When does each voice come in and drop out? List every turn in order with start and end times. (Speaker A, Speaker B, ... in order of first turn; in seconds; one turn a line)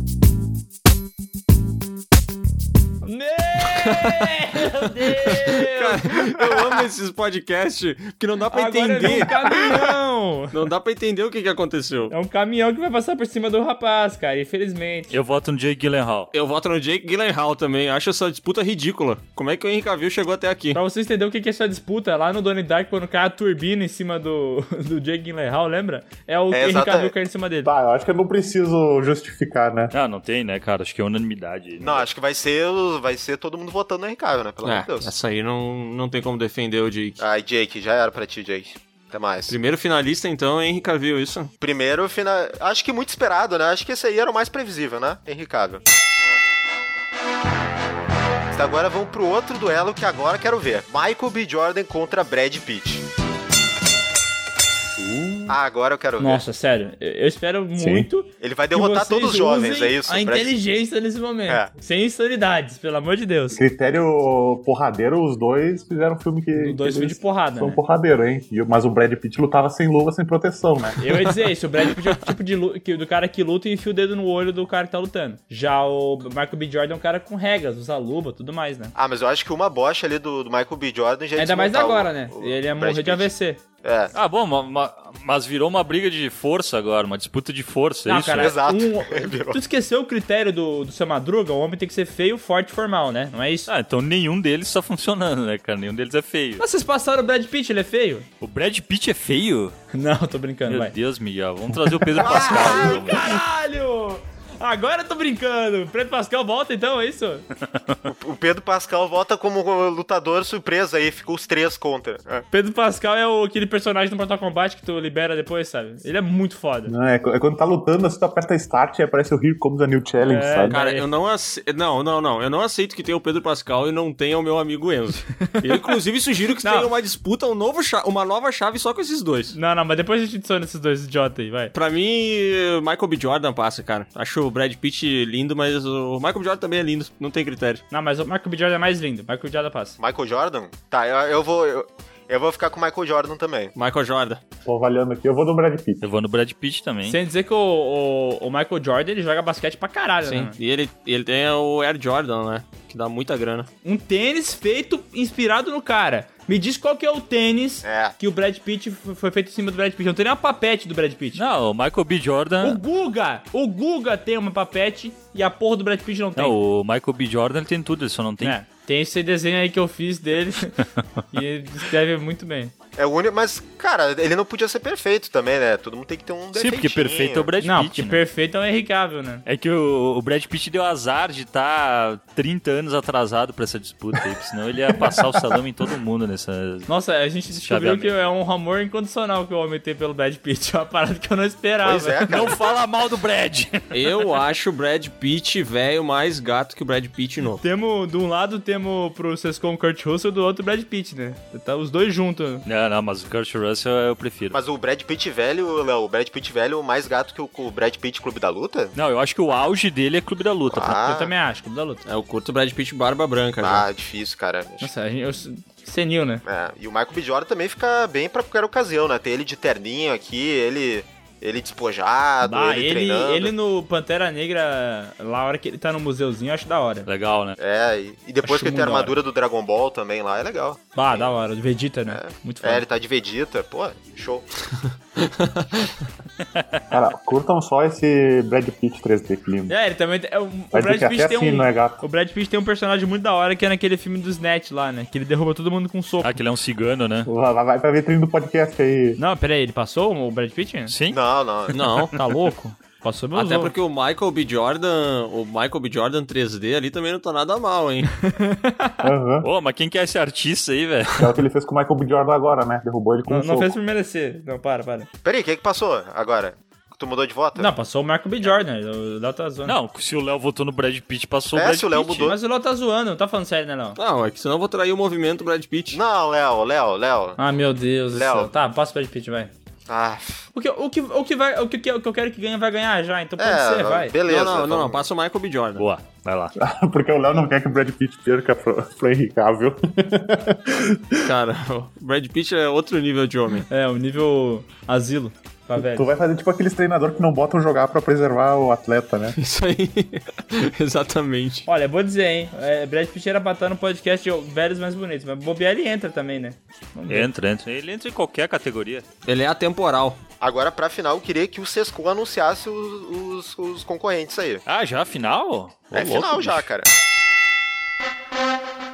Speaker A: 3.0-6.1
Speaker B: 3.8-4.3
Speaker B: 5.1-9.9
Speaker C: 6.4-6.7
Speaker A: 8.5-10.6
Speaker B: 10.5-12.1
Speaker A: 12.1-15.1
Speaker D: 15.1-16.3
Speaker B: 16.3-20.8
Speaker A: 20.7-27.7
Speaker C: 26.5-27.1
Speaker E: 27.6-29.9
Speaker D: 29.9-32.1
Speaker C: 31.8-35.1
Speaker B: 34.6-37.2
Speaker C: 37.2-39.6
Speaker B: 39.5-41.5
Speaker C: 41.6-45.8
Speaker C: 48.5-53.0
Speaker D: 55.0-55.5
Speaker C: 55.5-56.4
Speaker A: 56.2-63.6
Speaker E: 57.8-58.1
Speaker C: 58.4-60.5
Speaker E: 63.5-71.0
Speaker A: 66.5-67.8
Speaker A: 71.0-78.9
Speaker C: 79.0-83.3
Speaker A: 81.4-83.6
Speaker C: 83.8-84.1
Speaker D: 84.1-88.6
Speaker A: 88.1-93.7
Speaker C: 88.3-89.6
Speaker D: 93.7-96.6
Speaker A: 96.6-98.3
Speaker D: 98.4-99.8
Speaker A: 99.9-101.0
Speaker D: 100.7-103.2
Speaker C: 102.2-103.2
Speaker A: 102.2-107.5
Speaker D: 107.7-108.0
Speaker C: 108.1-112.5
Speaker A: 112.5-116.9
Speaker E: 116.9-120.8
Speaker A: 120.2-121.0
Speaker B: 120.7-129.6
Speaker A: 126.6-126.9
Speaker A: 129.5-131.7
Speaker B: 131.7-137.8
Speaker A: 137.9-140.0
Speaker C: 140.0-143.7
Speaker B: 143.8-144.4
Speaker E: 144.7-146.0
Speaker D: 146.0-147.2
Speaker A: 147.1-150.6
Speaker B: 150.2-153.7
Speaker A: 153.8-161.4
Speaker C: 157.8-158.2
Speaker D: 161.3-162.8
Speaker A: 162.6-166.6
Speaker D: 166.4-168.6
Speaker A: 168.4-170.8
Speaker A: 171.3-172.7
Speaker C: 173.0-177.5
Speaker D: 176.5-178.2
Speaker A: 177.6-179.4
Speaker D: 179.5-186.9
Speaker A: 186.9-192.4
Speaker D: 187.5-188.2
Speaker C: 191.8-192.7
Speaker D: 192.3-194.0
Speaker B: 193.9-197.6
Speaker A: 197.6-202.6
Speaker D: 202.7-204.6
Speaker C: 204.5-208.9
Speaker D: 208.9-211.0
Speaker C: 210.7-211.3
Speaker A: 211.0-212.0
Speaker B: 212.1-213.9
Speaker C: 213.6-214.9
Speaker A: 214.8-216.4
Speaker C: 216.4-223.5
Speaker A: 222.4-227.1
Speaker D: 227.1-227.6
Speaker C: 227.6-231.3
Speaker A: 228.4-229.2
Speaker A: 230.9-232.8
Speaker C: 232.1-234.5
Speaker B: 235.2-235.9
Speaker D: 236.6-236.8
Speaker E: 236.9-239.7
Speaker A: 239.7-246.4
Speaker E: 240.7-242.0
Speaker D: 246.2-247.3
Speaker E: 247.3-249.2
Speaker A: 249.2-250.9
Speaker D: 250.9-251.2
Speaker C: 251.1-252.1
Speaker B: 251.7-252.1
Speaker A: 252.2-253.7
Speaker B: 253.3-258.1
Speaker A: 258.2-259.0
Speaker E: 259.0-259.5
Speaker D: 259.4-261.3
Speaker E: 261.2-263.7
Speaker A: 263.3-265.1
Speaker C: 265.2-267.7
Speaker A: 267.6-269.8
Speaker D: 269.6-272.3
Speaker C: 271.5-272.4
Speaker A: 272.2-274.0
Speaker B: 274.0-276.0
Speaker C: 275.9-277.4
Speaker A: 277.4-279.5
Speaker C: 278.1-278.5
Speaker C: 279.9-280.4
Speaker A: 280.5-284.1
Speaker C: 283.4-285.1
Speaker B: 284.2-285.9
Speaker D: 285.8-286.5
Speaker E: 286.6-291.2
Speaker B: 291.2-293.6
Speaker A: 293.7-296.1
Speaker E: 295.8-299.4
Speaker B: 299.4-301.7
Speaker A: 301.7-307.3
Speaker D: 307.1-309.1
Speaker B: 309.3-310.2
Speaker C: 310.4-314.6
Speaker D: 314.7-316.7
Speaker C: 315.9-316.9